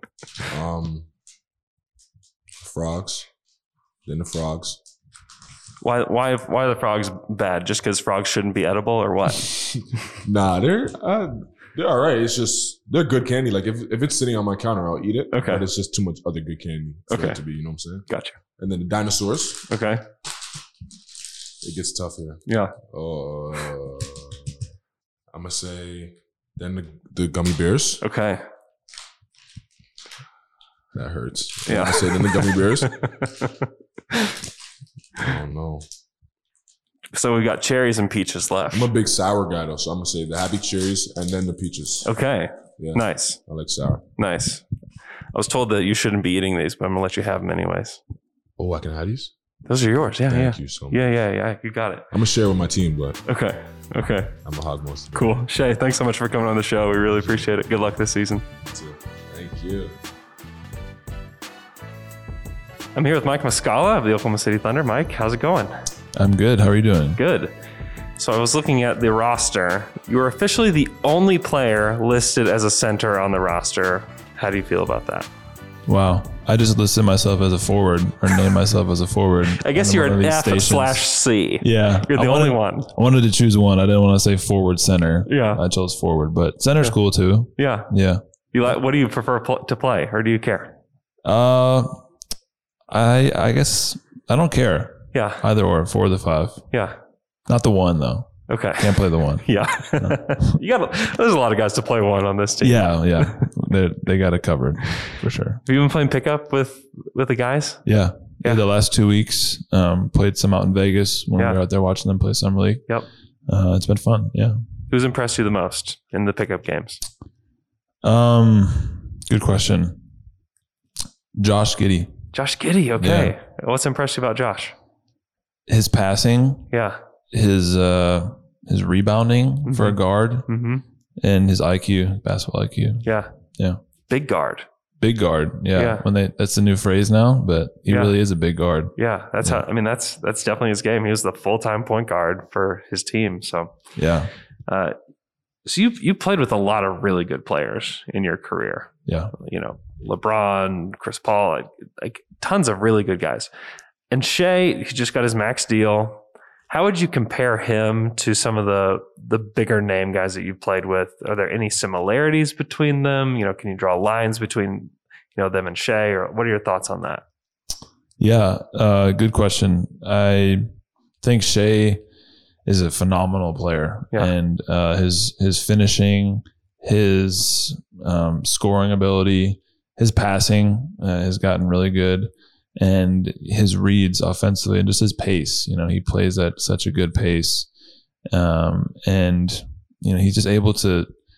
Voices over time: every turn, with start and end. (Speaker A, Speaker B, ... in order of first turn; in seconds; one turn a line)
Speaker A: 0.5-1.1
Speaker A: 2.6-3.3
Speaker A: 4.0-4.8
Speaker B: 5.8-9.5
Speaker A: 10.2-18.1
Speaker B: 15.3-15.7
Speaker B: 17.1-17.4
Speaker B: 18.1-18.4
Speaker A: 18.6-19.7
Speaker B: 19.7-20.0
Speaker A: 21.6-24.4
Speaker B: 22.5-22.7
Speaker A: 25.3-28.0
Speaker B: 28.0-28.4
Speaker A: 30.9-33.1
Speaker B: 31.7-34.3
Speaker A: 35.2-35.9
Speaker B: 37.1-38.9
Speaker A: 38.7-42.1
Speaker B: 42.0-43.4
Speaker A: 42.8-44.0
Speaker B: 44.2-44.6
Speaker B: 45.3-48.0
Speaker A: 48.6-49.3
Speaker B: 49.7-52.1
Speaker A: 50.3-51.0
Speaker A: 52.1-53.2
Speaker B: 53.3-54.3
Speaker A: 54.5-55.4
Speaker B: 55.1-58.4
Speaker A: 57.2-57.4
Speaker A: 58.6-60.0
Speaker B: 63.0-65.7
Speaker C: 66.2-67.2
Speaker B: 67.2-67.5
Speaker B: 68.2-75.3
Speaker C: 75.9-81.0
Speaker B: 79.6-82.9
Speaker C: 81.6-88.2
Speaker B: 85.3-85.6
Speaker B: 87.6-87.9
Speaker B: 88.5-90.8
Speaker C: 91.2-92.0
Speaker C: 92.9-96.6
Speaker B: 95.1-95.4
Speaker C: 97.5-99.5
Speaker B: 98.5-103.4
Speaker C: 100.0-100.5
Speaker C: 102.6-105.6
Speaker B: 105.7-107.8
Speaker C: 107.9-112.9
Speaker C: 113.5-114.6
Speaker B: 114.9-117.0
Speaker C: 118.0-120.0
Speaker C: 121.4-122.1
Speaker B: 122.3-124.7
Speaker C: 123.0-123.3
Speaker C: 125.7-126.7
Speaker B: 126.7-127.0
Speaker C: 127.3-130.5
Speaker B: 129.7-130.8
Speaker C: 131.2-133.1
Speaker B: 134.1-134.7
Speaker C: 135.0-139.6
Speaker B: 135.8-136.0
Speaker B: 137.9-138.2
Speaker B: 139.0-143.7
Speaker C: 144.0-144.3
Speaker B: 144.7-145.0
Speaker B: 145.7-153.5
Speaker C: 149.1-149.3
Speaker B: 154.1-167.2
Speaker C: 168.2-170.7
Speaker C: 171.2-172.0
Speaker C: 172.7-187.7
Speaker C: 188.3-191.1